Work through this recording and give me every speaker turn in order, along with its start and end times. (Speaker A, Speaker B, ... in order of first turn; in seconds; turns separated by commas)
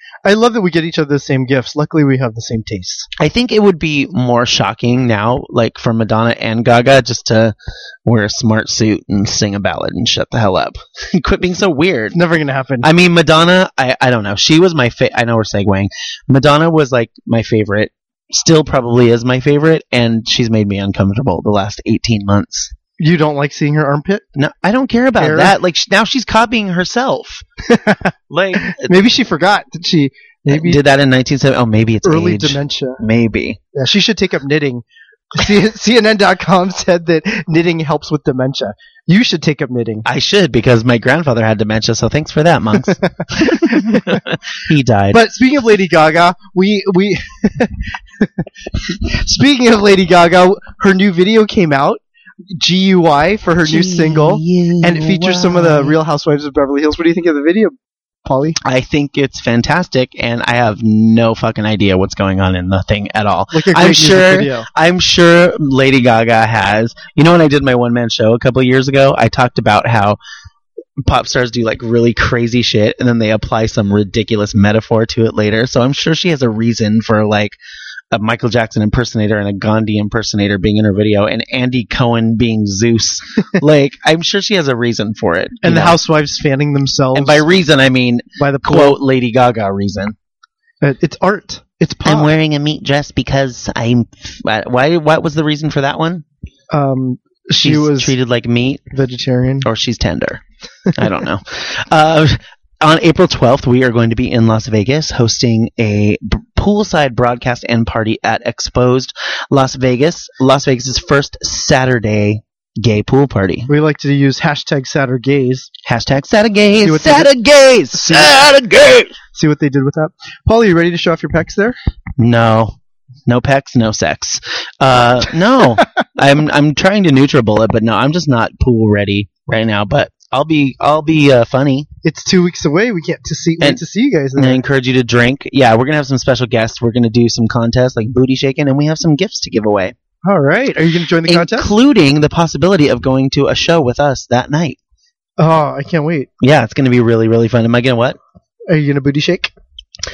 Speaker A: 0.2-3.1, Speaker B: 3.2-12.2, Speaker A: 12.1-12.9, Speaker B: 12.8-22.7, Speaker A: 23.0-24.2, Speaker B: 24.4-27.4, Speaker A: 25.2-25.5, Speaker A: 27.7-30.8, Speaker B: 28.3-28.9, Speaker B: 30.5-33.6, Speaker A: 32.0-33.0, Speaker A: 33.7-40.0, Speaker B: 40.0-45.2, Speaker A: 42.9-44.2, Speaker A: 45.1-58.6, Speaker B: 53.6-56.0, Speaker B: 58.6-70.2, Speaker A: 63.5-64.7, Speaker B: 71.0-77.6, Speaker B: 78.1-86.0, Speaker A: 85.6-87.5, Speaker B: 87.1-90.1, Speaker A: 88.4-89.0, Speaker A: 90.8-92.3, Speaker B: 92.0-96.2, Speaker A: 96.7-98.1, Speaker B: 97.6-98.8, Speaker A: 98.9-99.7, Speaker B: 99.6-100.4, Speaker B: 100.9-113.7, Speaker A: 113.7-115.7, Speaker B: 115.8-119.1, Speaker A: 116.8-117.3, Speaker A: 117.9-118.4, Speaker A: 119.3-121.8, Speaker B: 122.2-122.7, Speaker B: 123.3-131.9, Speaker A: 132.0-134.6, Speaker B: 134.3-139.9, Speaker A: 140.2-141.7, Speaker B: 141.2-144.8, Speaker A: 145.4-146.3, Speaker B: 146.4-148.2, Speaker A: 148.7-149.5